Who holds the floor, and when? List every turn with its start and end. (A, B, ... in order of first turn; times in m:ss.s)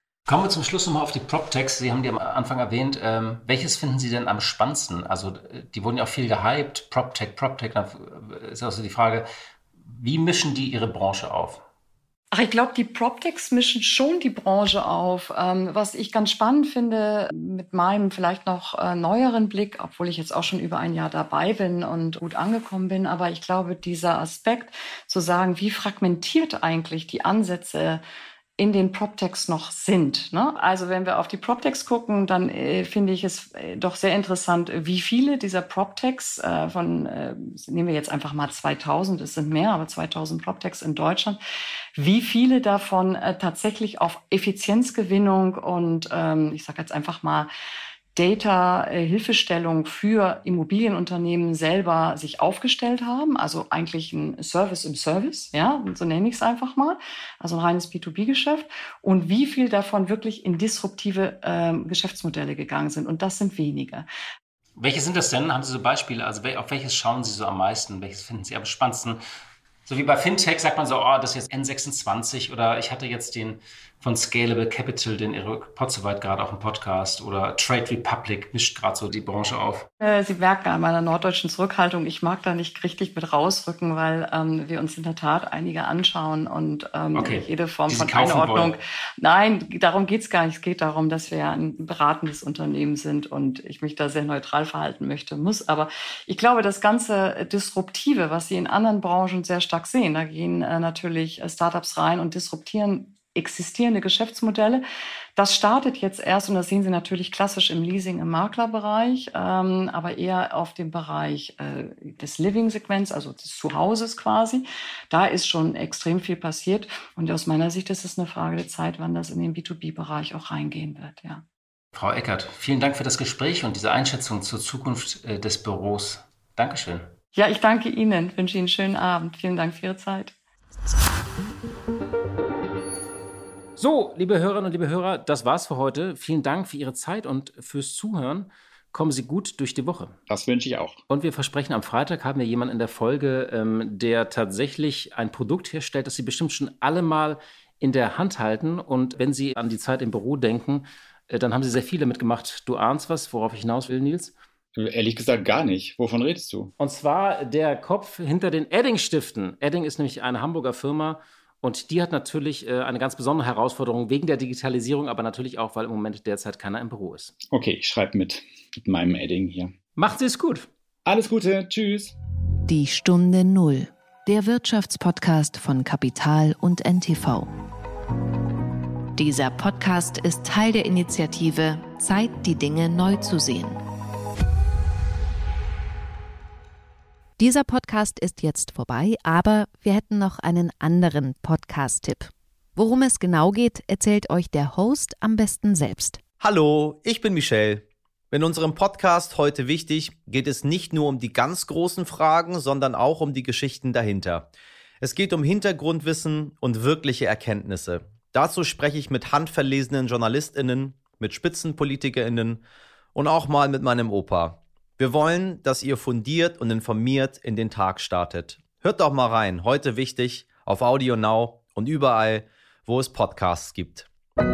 0:00.3-0:09.3 A
0:09.9-0:11.6 A
0:12.3-0:28.0 B
0:28.6-0:41.4 B
0:42.0-0:47.5 B
0:48.2-1:04.1 B
1:04.8-1:09.2 A
1:09.9-1:19.9 A
1:20.0-1:44.8 B
1:27.2-1:28.8 A
1:45.4-2:01.4 B
2:02.0-2:07.1 A
2:07.4-2:10.3 B
2:13.8-2:20.2 A
2:20.3-2:21.0 C
2:21.1-2:34.3 A
2:34.8-2:36.7 C
2:36.8-2:47.3 A
2:47.5-2:49.7 C
2:50.0-2:50.7 A
2:51.1-2:52.2 C
2:52.7-2:57.5 D
2:59.2-3:03.8 D
3:07.4-3:16.2 D
3:16.4-3:24.5 E
3:25.0-3:32.6 E
3:33.2-3:44.1 E